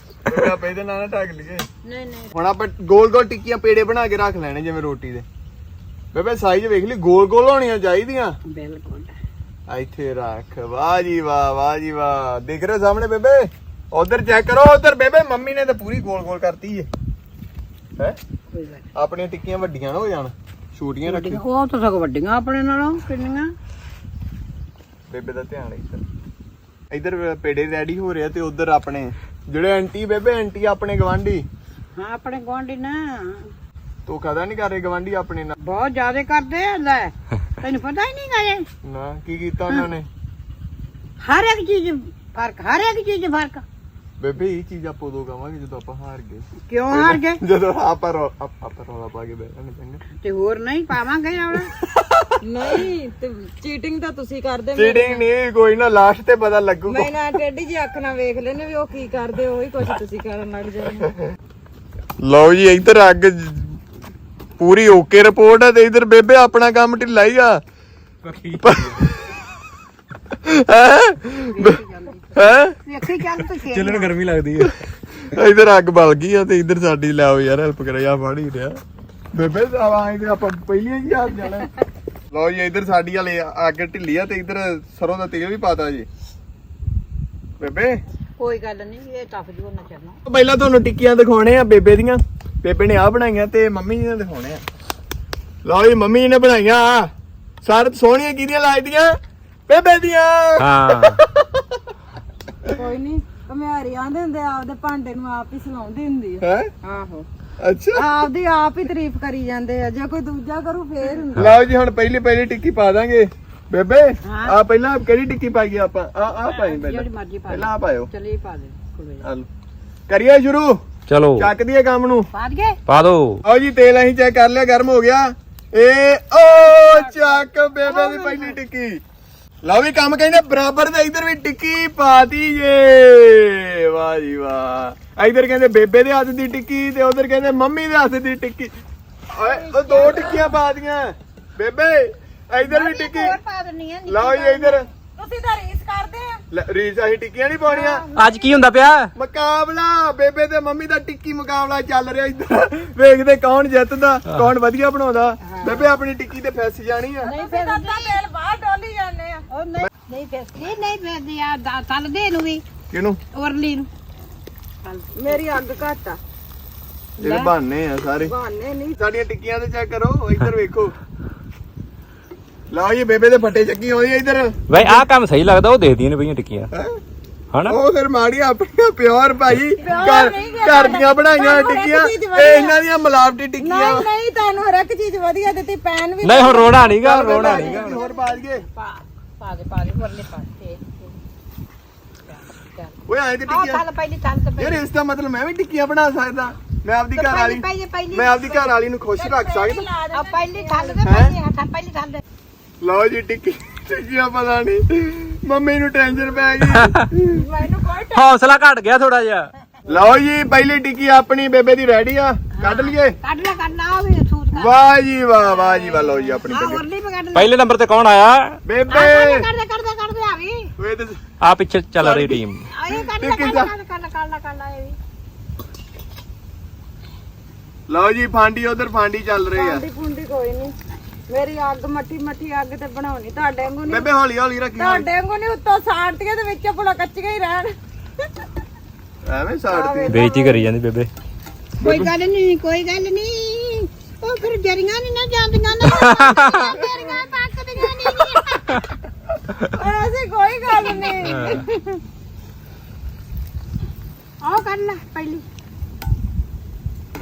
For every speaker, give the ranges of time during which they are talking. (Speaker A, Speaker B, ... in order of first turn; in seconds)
Speaker A: 0.2-1.7, 2.3-5.2, 6.1-8.4, 9.7-16.9, 18.9-21.4, 25.1-26.0, 26.9-31.4, 34.0-35.5, 38.8-40.1, 44.2-50.0, 51.8-52.4, 54.7-57.0, 62.2-63.8, 64.6-67.6, 68.5-69.4, 70.4-71.8, 72.3-72.7, 73.6-78.8, 79.3-81.7, 82.3-86.1, 87.6-88.0, 90.2-94.6, 95.6-97.1, 97.6-99.2, 99.7-101.9, 106.4-106.7, 107.6-108.1, 111.3-118.1, 119.2-119.5, 120.1-120.8, 121.3-122.3, 123.4-129.0, 129.6-138.7, 139.3-143.3, 144.1-144.8, 146.5-148.0, 149.2-157.3, 162.9-163.2, 167.2-168.3, 169.0-170.9, 172.7-175.0, 176.7-177.0, 177.7-184.1, 186.9-188.6, 193.1-193.8, 194.6-199.9, 201.0-201.3, 202.8-207.0, 209.9-213.2, 214.5-216.8, 218.7-219.5, 220.8-221.2, 222.0-223.7, 227.9-229.8, 233.9-235.1, 239.2-240.2, 241.8-242.1
Speaker B: 1.8-2.3, 8.4-9.1, 18.5-18.9, 21.1-23.5, 31.9-33.5, 35.6-38.6, 41.2-43.6, 46.7-47.4, 50.2-51.8, 71.5-74.1, 88.4-90.2, 114.2-114.6, 116.4-119.3, 122.3-122.8, 126.7-128.6, 139.4-140.4, 142.6-144.8, 147.7-148.6, 155.5-155.8, 157.2-158.2, 159.5-162.6, 163.3-163.9, 164.8-165.6, 167.2-167.5, 187.3-191.1, 192.3-192.9, 193.5-194.8, 197.2-198.6, 200.1-202.2, 207.1-207.4, 212.6-214.7, 215.5-217.5, 218.9-220.7, 222.7-225.0, 241.8-248.9, 250.8-252.0, 254.4-255.4
Speaker C: 52.4-55.2, 56.9-61.1, 102.7-107.2, 107.9-111.5, 139.8-140.4, 145.2-146.4, 157.3-159.4, 165.1-166.2, 168.2-169.0, 179.8-182.8, 183.6-187.8, 199.1-201.0, 207.3-208.3, 229.5-230.7, 231.3-234.1, 234.8-237.8, 239.7-240.7, 249.7-251.6
Speaker D: 68.3-68.8, 100.6-101.2, 121.1-121.5, 122.9-123.4, 148.1-149.1, 174.7-176.7, 186.2-187.9, 206.7-207.1, 208.1-209.5, 217.3-218.6, 221.4-222.6, 240.1-241.1, 245.8-246.6